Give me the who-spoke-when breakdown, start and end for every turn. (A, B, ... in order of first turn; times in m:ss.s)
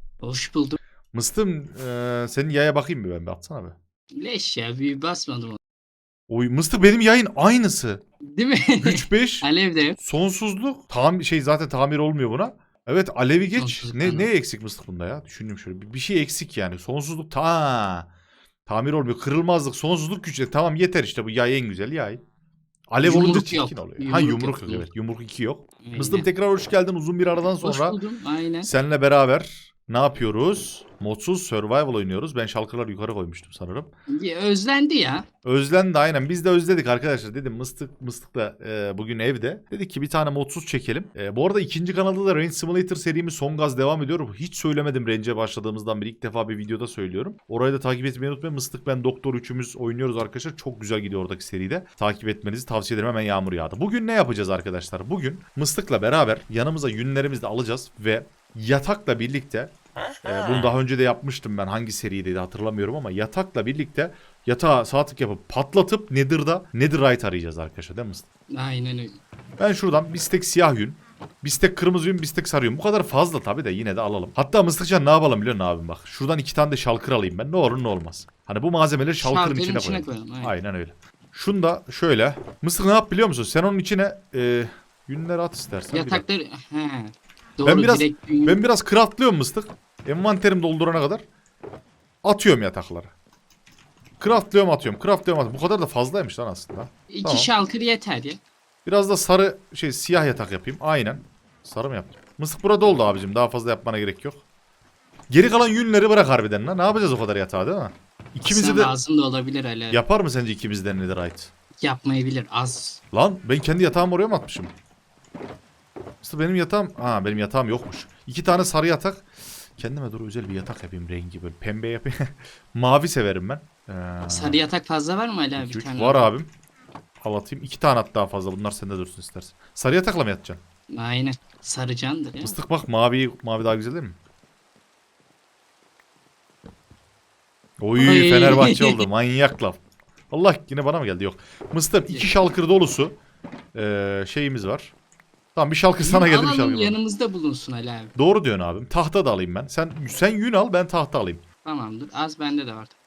0:00.2-0:00.8 A
0:01.1-0:03.8 B
0:04.1-0:05.6 A
0:06.3-0:08.0 B
0:08.2-0:10.0 A
0:08.8-0:09.5 B
0:10.0-0:18.1 B
0:13.6-0:14.3 A
0:18.7-0:22.2 B
0:22.9-0:28.0 B
0:23.0-0:24.9 A
0:25.8-0:26.3 A
0:27.6-0:28.7 A
0:28.6-0:33.9 B
0:34.1-0:35.3 A
0:35.4-1:08.2 B
1:08.5-1:09.2 A
1:09.6-1:26.2 B
1:19.2-1:20.5 A
1:25.9-1:28.6 A
1:27.6-1:31.2 B
1:32.2-1:33.1 B
1:34.2-1:37.5 B
1:37.1-1:38.4 A
1:38.9-1:44.4 B
1:45.3-1:48.9 B
1:48.5-1:50.0 A
1:49.9-1:51.5 B
1:51.8-1:53.0 A
1:53.1-1:54.7 B
1:56.2-1:59.2 B
1:59.8-2:04.6 B
2:04.3-2:06.3 A
2:05.6-2:06.5 B
2:07.2-2:10.6 B
2:10.9-2:12.6 A
2:12.4-2:14.2 B
2:17.8-2:19.8 B
2:18.0-2:19.0 A
2:20.3-2:23.2 B
2:23.7-2:24.9 B
2:25.6-2:27.0 B
2:26.0-2:28.1 A
2:28.2-2:31.4 B
2:31.6-2:33.0 A